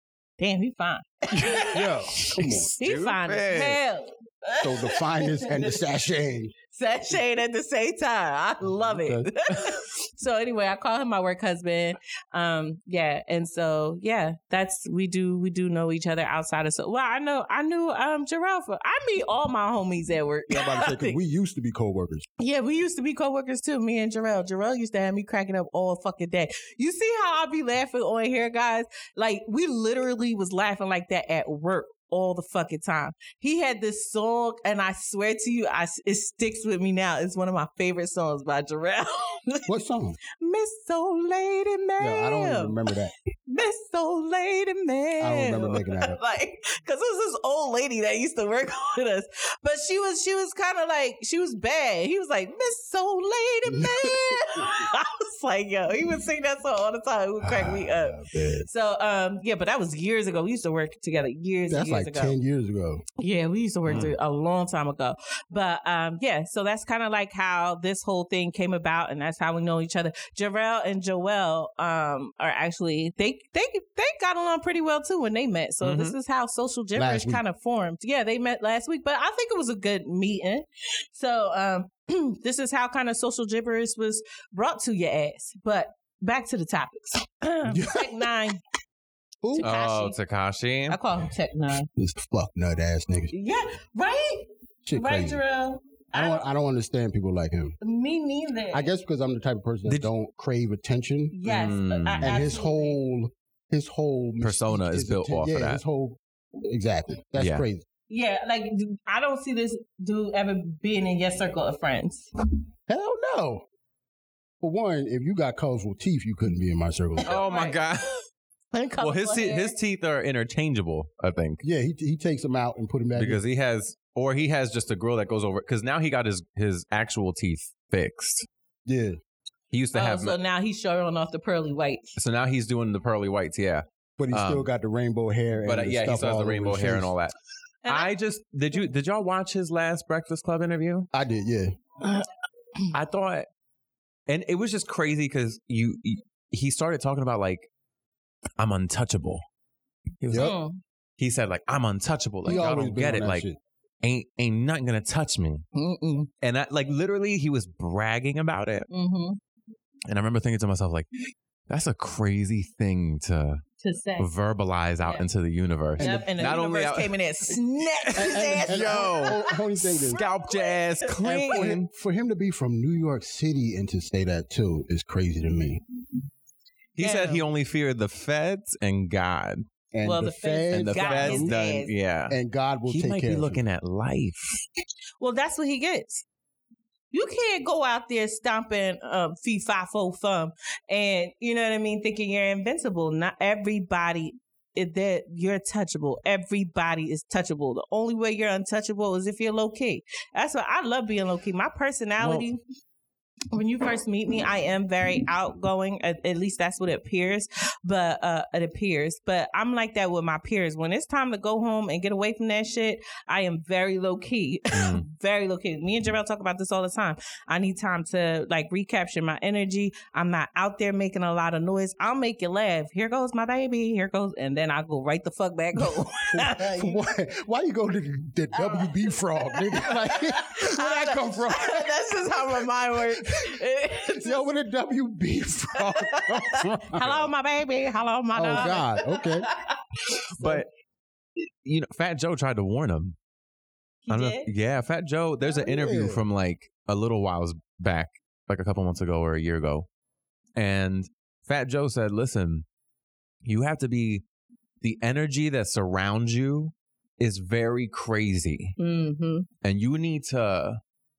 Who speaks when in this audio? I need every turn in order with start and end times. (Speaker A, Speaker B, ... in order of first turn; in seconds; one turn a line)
Speaker A: 0.4-5.8
Speaker B: 1.7-2.7
Speaker C: 2.5-3.8
Speaker B: 4.6-6.5
Speaker A: 6.7-21.2
Speaker B: 8.6-9.3
Speaker B: 20.5-22.3
Speaker A: 22.4-39.7
Speaker B: 39.7-40.2
Speaker A: 40.4-42.8
Speaker B: 42.0-43.1
Speaker A: 43.5-62.4
Speaker B: 45.2-46.2
Speaker B: 53.7-54.7
Speaker B: 57.4-58.7
Speaker B: 61.7-63.0
Speaker A: 63.2-88.6
Speaker C: 63.9-64.2
Speaker C: 75.8-76.2
Speaker B: 77.0-77.4
Speaker B: 87.7-88.3
Speaker B: 89.4-89.7
Speaker A: 89.5-90.2
Speaker C: 89.6-91.0
Speaker A: 90.9-91.9
Speaker B: 92.0-93.3
Speaker A: 93.3-96.5
Speaker B: 94.8-95.4
Speaker B: 96.1-97.8
Speaker A: 97.8-98.9
Speaker B: 98.7-101.4
Speaker A: 101.3-103.0
Speaker C: 101.5-102.3
Speaker B: 102.2-107.8
Speaker C: 104.4-105.8
Speaker C: 107.4-107.7
Speaker A: 108.1-112.3
Speaker B: 112.9-113.6
Speaker B: 114.6-117.4
Speaker A: 117.2-117.8
Speaker C: 117.3-118.2
Speaker A: 118.7-119.8
Speaker C: 119.0-121.6
Speaker B: 121.6-123.4
Speaker C: 123.2-128.5
Speaker B: 128.9-129.2
Speaker C: 129.7-130.4
Speaker A: 129.9-132.2
Speaker C: 132.2-134.7
Speaker B: 134.2-137.1
Speaker C: 135.6-137.3
Speaker A: 137.8-138.2
Speaker C: 137.9-141.1
Speaker B: 141.1-141.8
Speaker C: 142.9-143.5
Speaker C: 144.3-147.7
Speaker C: 148.6-149.4
Speaker C: 150.2-150.5
Speaker B: 150.3-150.5
Speaker A: 150.3-150.8
Speaker C: 151.2-153.5
Speaker B: 152.4-153.6
Speaker C: 154.0-155.7
Speaker A: 155.8-156.3
Speaker C: 156.4-158.9
Speaker A: 158.9-159.4
Speaker C: 160.1-161.1
Speaker C: 161.7-163.6
Speaker A: 163.8-164.3
Speaker C: 164.2-169.4
Speaker B: 166.0-166.3
Speaker A: 166.0-169.4
Speaker B: 168.1-170.2
Speaker C: 170.0-171.9
Speaker A: 170.1-171.6
Speaker B: 171.2-175.8
Speaker C: 177.0-179.6
Speaker A: 177.0-177.4
Speaker B: 179.9-181.5
Speaker A: 180.0-181.9
Speaker C: 180.7-184.6
Speaker B: 182.3-183.6
Speaker A: 185.2-186.2
Speaker A: 187.1-202.6
Speaker C: 202.2-202.5
Speaker A: 203.5-227.0
Speaker C: 214.7-215.0
Speaker B: 226.3-231.9
Speaker A: 228.6-234.5
Speaker B: 232.9-233.5
Speaker B: 234.2-237.1
Speaker A: 235.9-239.8
Speaker C: 237.0-237.3
Speaker B: 238.3-239.5
Speaker C: 240.4-240.7
Speaker C: 241.6-243.2
Speaker A: 244.1-244.5
Speaker C: 244.1-249.9
Speaker B: 245.5-246.2
Speaker C: 250.6-252.7
Speaker C: 253.4-254.2
Speaker C: 254.8-258.8
Speaker A: 258.8-259.5
Speaker C: 259.6-260.8